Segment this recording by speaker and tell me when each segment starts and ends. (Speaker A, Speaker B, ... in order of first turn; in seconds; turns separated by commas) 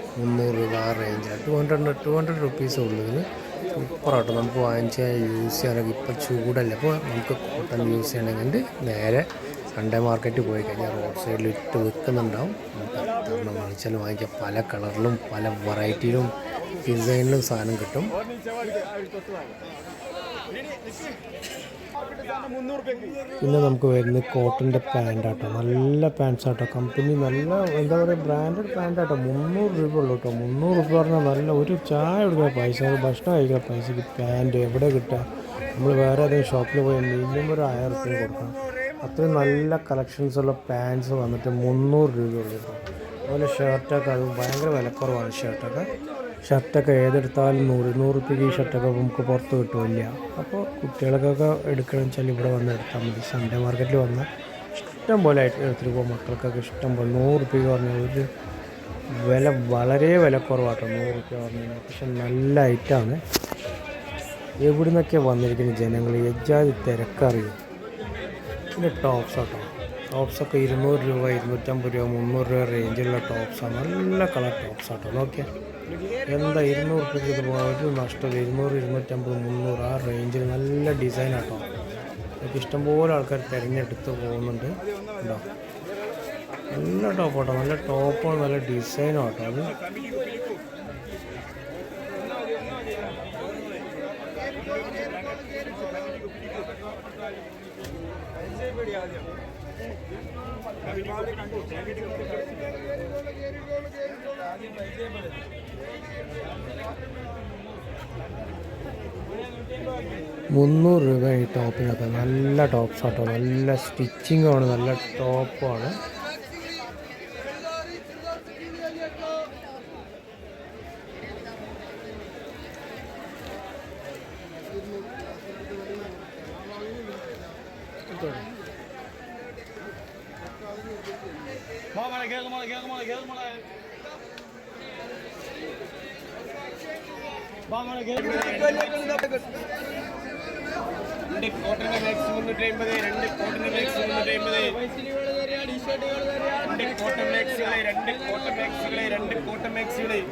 Speaker A: 0.2-18.1, Speaker A: 23.4-35.2, Speaker A: 35.8-45.9, Speaker A: 46.5-58.3, Speaker A: 59.2-63.2, Speaker A: 64.6-67.6, Speaker A: 68.8-75.5, Speaker A: 76.3-81.7, Speaker A: 82.4-85.5, Speaker A: 86.7-89.8, Speaker A: 110.5-116.0, Speaker B: 128.1-128.4, Speaker B: 132.0-133.4, Speaker C: 132.7-133.3, Speaker B: 137.8-139.1, Speaker C: 142.3-143.4, Speaker B: 143.7-144.1, Speaker C: 144.1-144.4, Speaker C: 146.9-150.1